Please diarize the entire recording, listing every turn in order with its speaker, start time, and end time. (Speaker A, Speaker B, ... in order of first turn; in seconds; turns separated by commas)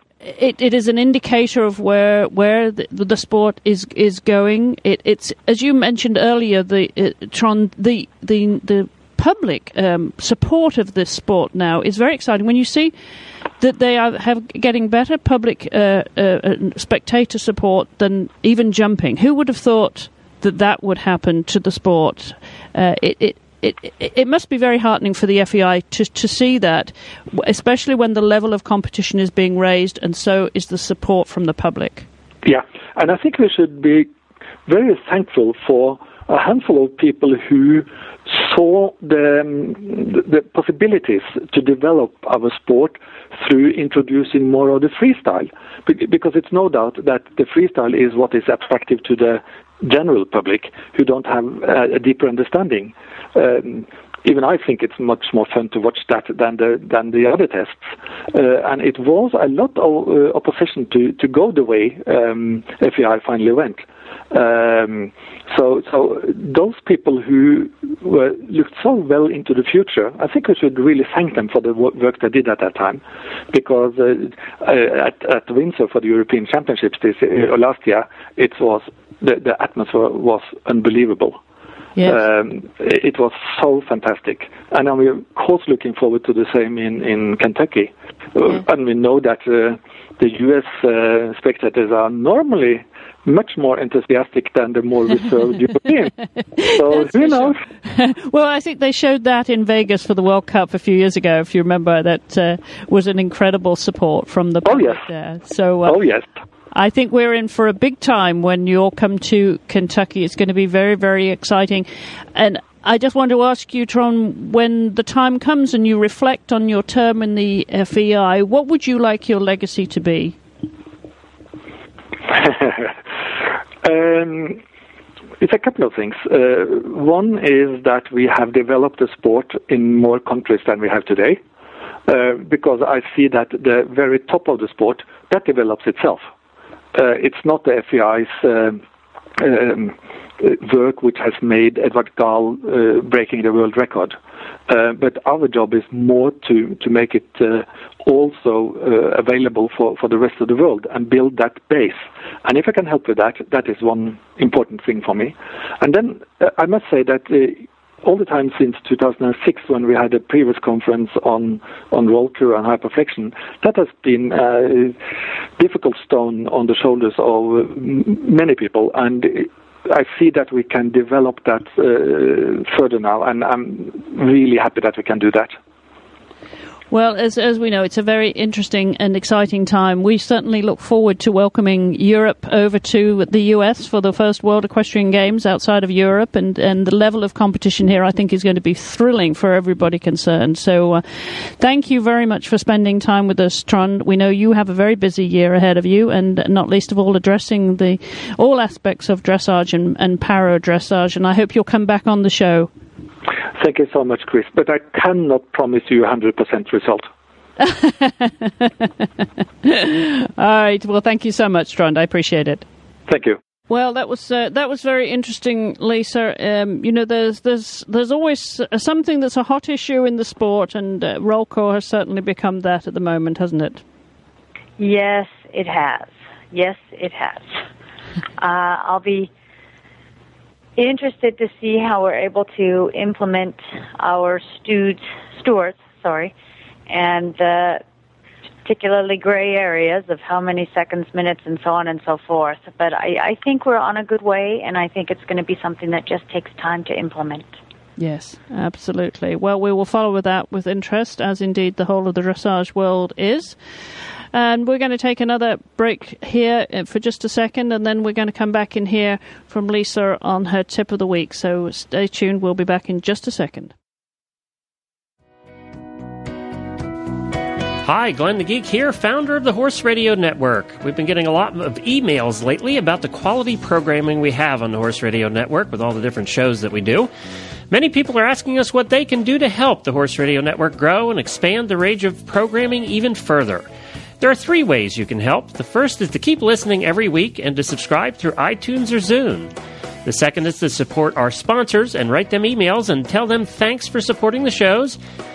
Speaker A: 0.2-12.9, Speaker A: 13.6-32.1, Speaker B: 32.4-34.1, Speaker B: 34.7-81.4, Speaker A: 82.0-82.2, Speaker B: 82.0-97.6, Speaker A: 96.6-106.0, Speaker B: 104.7-105.0, Speaker B: 105.9-106.2, Speaker A: 106.7-120.4, Speaker B: 122.3-122.9, Speaker B: 123.8-124.6, Speaker B: 125.4-131.4, Speaker B: 132.1-136.2, Speaker B: 136.9-138.8, Speaker B: 139.4-144.2, Speaker B: 144.7-165.0, Speaker B: 165.6-175.5, Speaker A: 176.9-202.7, Speaker B: 203.6-207.1, Speaker A: 207.6-212.7, Speaker B: 213.1-213.4, Speaker A: 213.7-223.8, Speaker C: 224.8-227.6, Speaker C: 228.4-229.3, Speaker C: 230.8-236.3, Speaker C: 236.9-237.8, Speaker C: 238.6-247.6, Speaker A: 248.0-253.6, Speaker A: 254.3-263.7, Speaker D: 267.8-277.1, Speaker D: 277.7-283.7, Speaker D: 284.2-289.5, Speaker D: 290.1-295.0